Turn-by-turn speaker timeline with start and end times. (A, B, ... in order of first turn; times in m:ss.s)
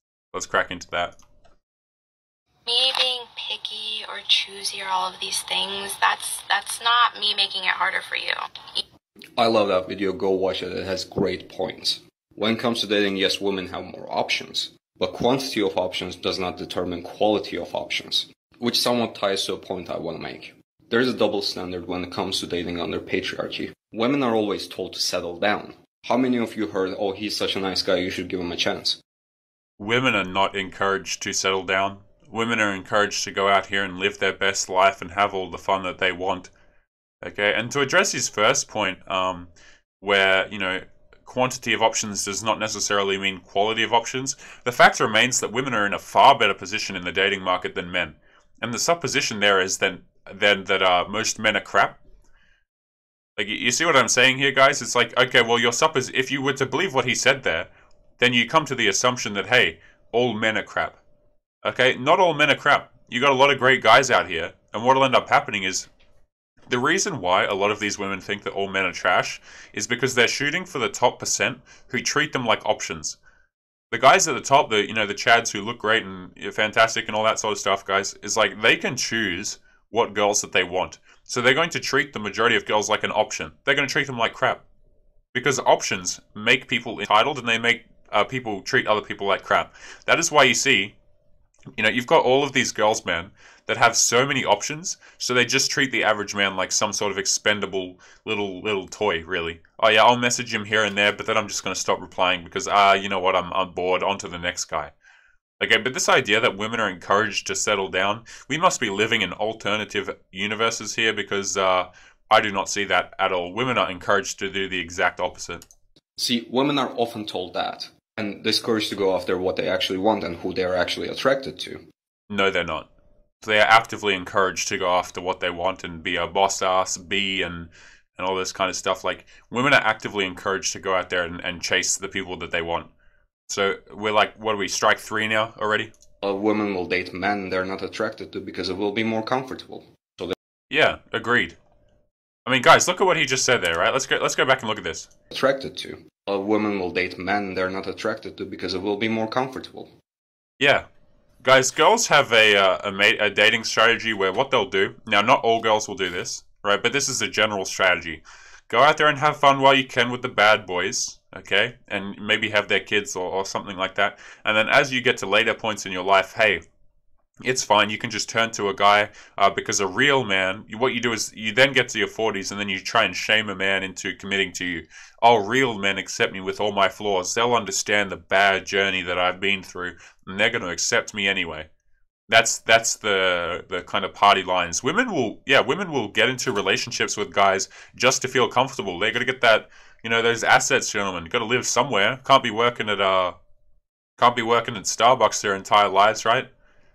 0:00.3-0:01.1 A
0:02.6-0:08.4 B
0:09.4-0:29.0 C
0:29.8-0:36.5 A
0:37.2-0:39.5 A
0:40.0-0:52.0 A
0:53.4-1:01.0 A
1:01.6-1:05.9 A
1:06.7-1:13.2 A
1:13.9-1:24.6 A
1:25.3-1:30.9 A
1:31.8-1:44.9 A
1:45.6-1:55.6 A
1:56.2-2:01.8 C
2:02.3-2:02.8 A
2:03.4-2:12.9 A
2:13.5-2:15.9 A
2:16.2-2:20.4 C
2:20.7-2:21.6 A
2:22.4-2:25.1 A
2:25.3-2:29.9 C
2:30.6-2:30.8 A
2:31.4-2:46.6 A
2:47.4-3:01.7 A
3:02.3-3:13.3 A
3:14.2-3:16.5 A